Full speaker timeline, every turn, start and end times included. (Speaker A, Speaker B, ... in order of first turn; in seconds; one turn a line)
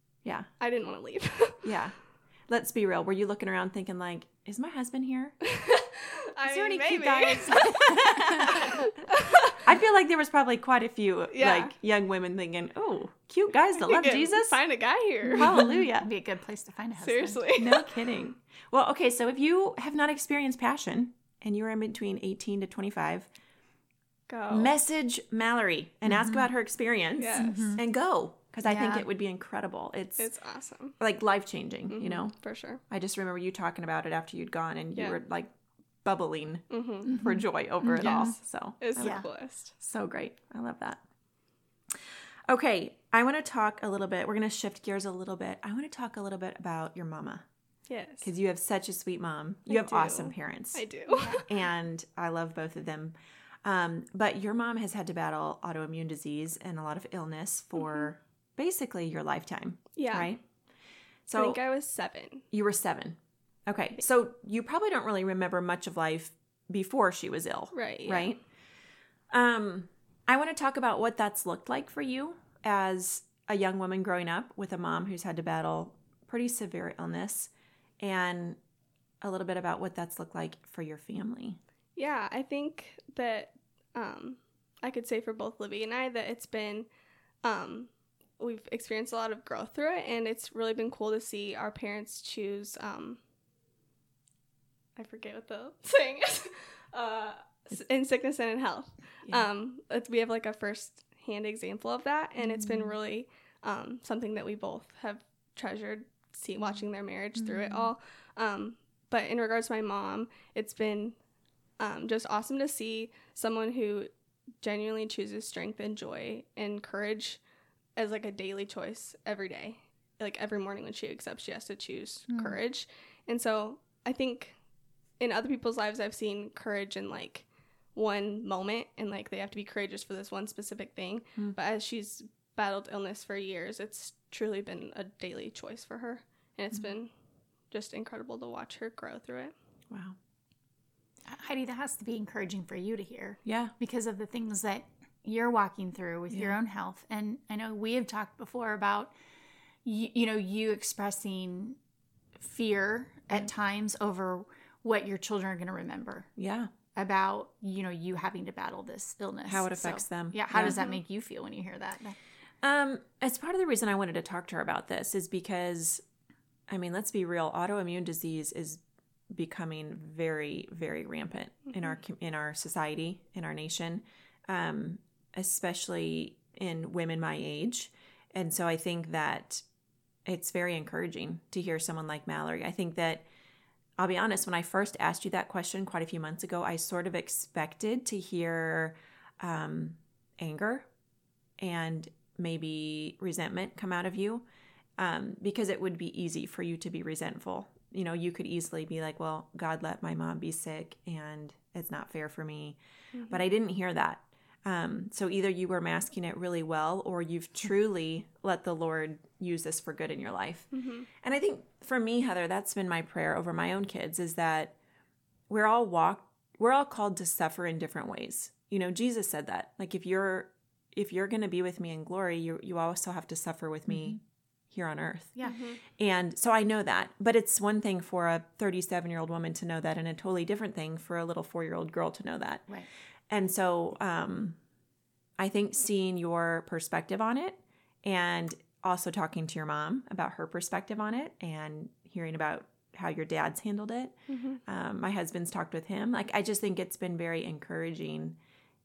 Speaker A: 0.2-0.5
Speaker B: 0.6-1.6
Speaker A: 1.6-5.4
Speaker B: 5.5-9.6
Speaker A: 6.5-8.8
Speaker A: 9.6-14.6
Speaker B: 11.3-11.7
Speaker B: 13.8-15.5
Speaker A: 15.3-16.1
Speaker C: 15.4-17.4
Speaker B: 17.0-17.9
Speaker A: 17.6-23.3
Speaker B: 24.3-24.7
Speaker A: 24.5-30.3
Speaker C: 26.1-26.4
Speaker B: 27.2-27.7
Speaker C: 27.4-27.8
Speaker C: 28.6-29.1
Speaker B: 30.2-31.0
Speaker A: 31.0-35.5
Speaker B: 31.9-32.8
Speaker A: 36.0-41.0
Speaker B: 36.7-37.1
Speaker C: 37.1-38.4
Speaker B: 38.0-39.7
Speaker C: 39.0-39.3
Speaker A: 42.5-47.5
Speaker B: 47.9-48.3
Speaker A: 48.2-60.4
Speaker B: 49.7-51.4
Speaker C: 51.2-51.4
Speaker B: 57.8-58.1
Speaker B: 60.0-60.3
Speaker A: 61.3-61.6
Speaker B: 61.4-62.4
Speaker A: 62.5-68.4
Speaker B: 67.7-68.3
Speaker A: 69.3-78.6
Speaker A: 79.2-81.6
Speaker B: 82.0-86.9
Speaker B: 87.4-93.2
Speaker B: 95.0-111.2
Speaker C: 102.5-102.9
Speaker C: 107.4-107.9
Speaker B: 111.8-117.4
Speaker B: 118.0-124.6
Speaker C: 122.3-122.6
Speaker B: 125.2-137.1
Speaker B: 137.7-139.5
Speaker A: 139.9-140.2
Speaker C: 141.3-149.1
Speaker A: 143.5-143.7
Speaker C: 149.8-151.8
Speaker C: 152.4-156.3
Speaker A: 156.4-156.7
Speaker C: 156.9-162.2
Speaker A: 159.5-160.8
Speaker A: 162.6-166.0
Speaker A: 166.7-179.6
Speaker A: 180.3-183.3
Speaker A: 184.0-190.9
Speaker A: 191.6-194.5
Speaker A: 195.0-202.8
Speaker B: 203.1-203.4
Speaker A: 203.3-214.8
Speaker B: 210.7-211.1
Speaker A: 215.5-232.8
Speaker C: 223.9-224.2
Speaker B: 225.4-225.8
Speaker A: 233.3-234.6
Speaker A: 235.4-248.4
Speaker B: 244.3-244.6